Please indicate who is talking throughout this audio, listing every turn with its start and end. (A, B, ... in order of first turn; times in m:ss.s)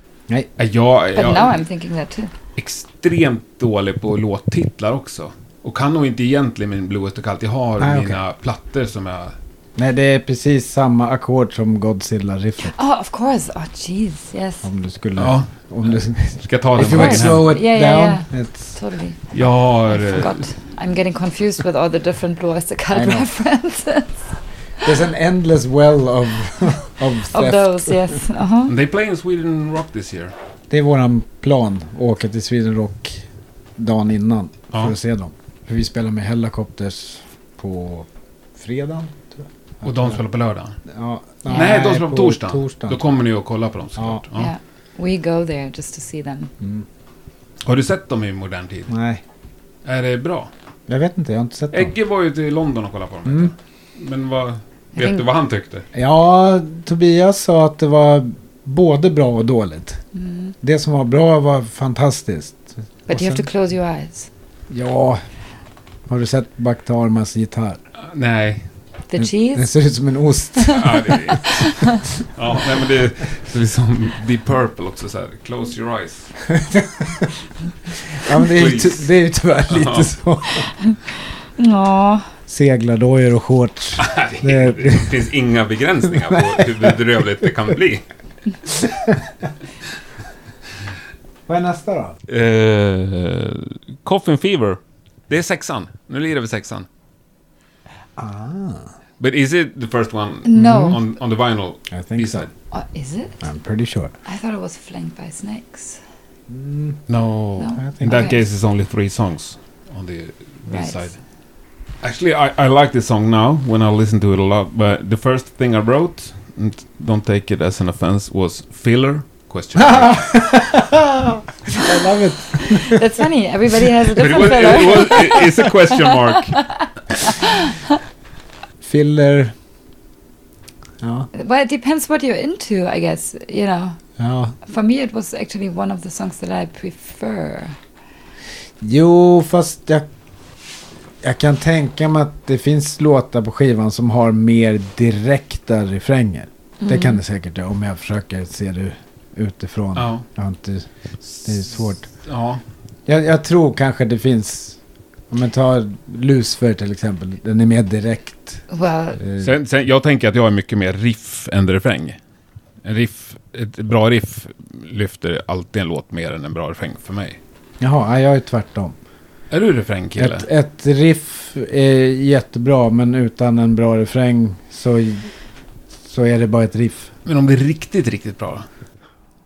0:00.6-0:01.6 A
0:01.1-0:02.3 B
0:02.6-0:09.4 A
0:07.8-0:08.2 C
0:09.8-0:12.7 C
0:12.7-0:14.6 B
0:14.6-0:18.7 C
0:15.2-0:17.5 A
0:16.8-0:24.2 B
0:19.3-0:20.4 A
0:22.9-0:23.3 C
0:24.8-0:28.2 C
0:27.3-0:28.7 B
0:28.6-0:30.3 A
0:30.7-0:33.2 C
0:33.8-0:40.2 C
0:39.8-0:40.8 A
0:40.8-0:43.0 C
0:41.5-0:44.5 A
0:44.0-0:44.2 C
0:44.3-0:46.5 B
0:46.6-0:46.8 C
0:47.6-0:48.9 A
0:48.9-0:49.2 C
0:49.8-0:50.5 A
0:50.9-0:51.9 C
0:51.7-0:55.8 A
0:53.2-0:53.5 C
0:54.9-0:55.2 B
0:55.9-1:00.0 C
1:00.1-1:00.5 B
1:00.6-1:03.4 C
1:03.1-1:04.3 B
1:04.7-1:05.2 C
1:06.1-1:07.8 C
1:08.0-1:08.7 A
1:09.1-1:09.7 B
1:09.2-1:11.3 C
1:10.6-1:12.0 B
1:10.7-1:16.3 A
1:16.5-1:17.3 C
1:18.1-1:20.7 C
1:18.3-1:19.1 A
1:19.7-1:20.1 A
1:21.6-1:22.3 B
1:22.5-1:25.2 C
1:24.0-1:28.0 A
1:26.3-1:26.8 C
1:28.7-1:29.3 C
1:31.5-1:32.2 C
1:32.3-1:36.9 A
1:38.2-1:38.9 C
1:39.2-1:42.5 A
1:40.4-1:41.0 B
1:40.5-1:41.0 C
1:41.9-1:42.5 C
1:42.7-1:43.4 B
1:43.4-1:44.1 C
1:44.2-1:46.0 B
1:46.5-1:47.0 C
1:47.1-1:51.2 A
1:47.6-1:48.4 B
1:47.7-1:48.3 C
1:50.7-1:51.1 B
1:52.0-2:00.3 A
1:59.8-2:03.0 C
2:02.6-2:07.8 B
2:04.1-2:06.6 A
2:08.8-2:09.5 C
2:11.0-2:11.3 C
2:11.3-2:14.0 B
2:14.2-2:14.6 C
2:14.6-2:17.8 B
2:18.8-2:20.1 C
2:21.2-2:30.9 C
2:26.8-2:27.2 B
2:30.0-2:30.2 A
2:31.4-2:32.1 C
2:32.1-2:32.6 A
2:33.0-2:34.8 C
2:35.3-2:38.6 C
2:38.7-2:39.2 B
2:39.2-2:39.5 C
2:39.4-2:42.2 A
2:42.8-2:47.4 A
2:47.8-2:49.0 C
2:49.5-2:50.5 A
2:50.2-2:55.3 C
2:56.1-2:57.1 C
2:57.2-2:58.7 A